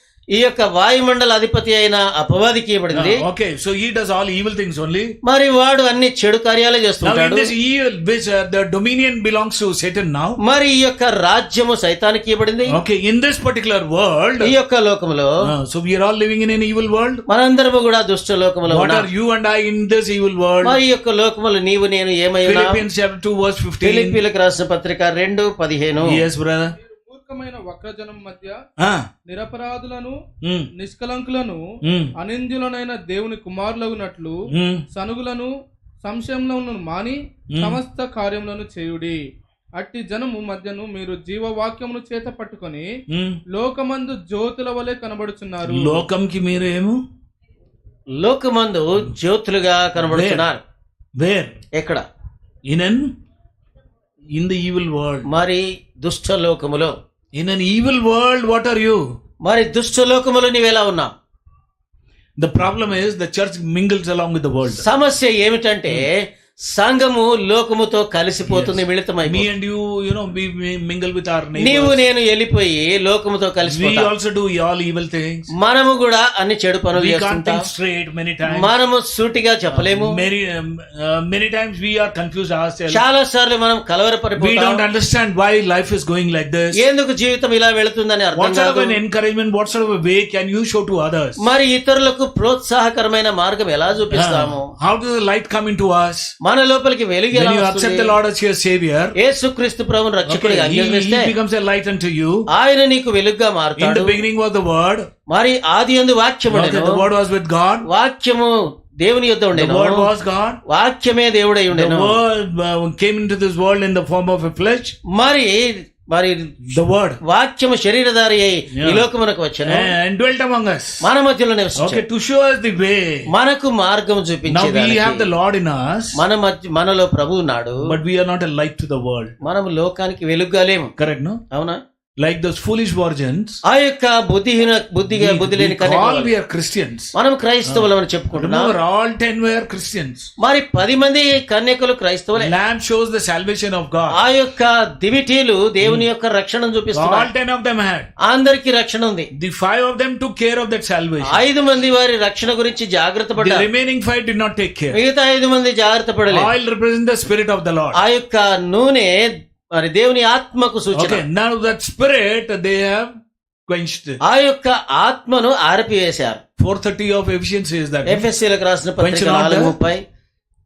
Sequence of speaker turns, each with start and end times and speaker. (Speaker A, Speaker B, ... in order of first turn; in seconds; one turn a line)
Speaker A: 0.3-3.2
Speaker B: 2.9-5.2
Speaker A: 5.2-7.5
Speaker B: 7.0-10.4
Speaker A: 10.4-12.7
Speaker B: 12.7-14.5
Speaker A: 14.4-15.3
Speaker B: 15.4-17.2
Speaker A: 17.3-19.1
Speaker B: 18.7-20.8
Speaker A: 20.6-22.8
Speaker B: 22.4-24.2
Speaker A: 23.8-26.2
Speaker B: 26.0-26.8
Speaker C: 26.8-28.6
Speaker B: 28.8-29.1
Speaker C: 29.3-30.2
Speaker B: 30.4-30.7
Speaker C: 30.8-31.6
Speaker B: 31.8-32.1
Speaker C: 32.2-34.4
Speaker B: 34.5-34.8
Speaker C: 34.9-35.5
Speaker C: 36.0-39.2
Speaker B: 37.5-37.8
Speaker C: 39.8-42.9
Speaker B: 43.1-43.4
Speaker C: 43.5-46.0
Speaker B: 45.6-47.0
Speaker A: 48.2-50.6
Speaker B: 50.0-50.5
Speaker B: 51.2-51.6
Speaker A: 51.8-52.0
Speaker B: 52.7-53.1
Speaker B: 54.3-55.3
Speaker A: 55.3-56.9
Speaker B: 57.4-59.0
Speaker A: 59.4-61.1
Speaker B: 62.4-64.8
Speaker A: 64.7-66.2
Speaker A: 66.7-69.5
Speaker B: 68.5-72.0
Speaker A: 71.6-74.1
Speaker B: 73.7-75.5
Speaker A: 75.6-77.6
Speaker B: 77.0-78.7
Speaker A: 78.5-80.2
Speaker B: 79.7-83.0
Speaker A: 82.9-84.8
Speaker B: 84.4-86.8
Speaker A: 86.8-89.0
Speaker B: 88.4-91.4
Speaker A: 91.4-94.7
Speaker B: 94.1-96.3
Speaker A: 96.4-98.1
Speaker B: 97.3-99.1
Speaker A: 99.2-101.3
Speaker B: 100.3-102.5
Speaker A: 102.5-104.2
Speaker B: 103.8-105.1
Speaker A: 105.3-107.0
Speaker B: 106.5-107.9
Speaker A: 107.9-110.1
Speaker B: 109.5-110.6
Speaker A: 110.7-112.2
Speaker B: 111.7-114.9
Speaker A: 115.1-116.6
Speaker B: 116.7-117.2
Speaker A: 117.2-119.9
Speaker B: 118.7-119.0
Speaker B: 119.6-121.0
Speaker A: 121.0-122.0
Speaker B: 121.8-123.3
Speaker A: 123.3-125.3
Speaker B: 124.5-126.2
Speaker A: 126.2-127.8
Speaker B: 127.8-129.3
Speaker A: 129.4-130.9
Speaker B: 131.0-131.4
Speaker A: 131.5-131.8
Speaker B: 132.2-133.6
Speaker A: 133.7-136.3
Speaker B: 135.1-137.1
Speaker A: 137.2-138.7
Speaker B: 137.7-140.3
Speaker A: 140.4-142.5
Speaker B: 142.4-144.2
Speaker A: 144.1-147.3
Speaker B: 146.9-148.1
Speaker A: 148.2-149.3
Speaker B: 149.3-151.4
Speaker A: 151.3-153.7
Speaker B: 153.4-155.0
Speaker A: 154.9-156.5
Speaker B: 156.3-158.0
Speaker A: 158.0-161.2
Speaker B: 160.9-163.1
Speaker B: 163.7-164.2
Speaker A: 164.2-166.4
Speaker B: 166.6-168.3
Speaker A: 168.1-170.0
Speaker B: 169.0-169.8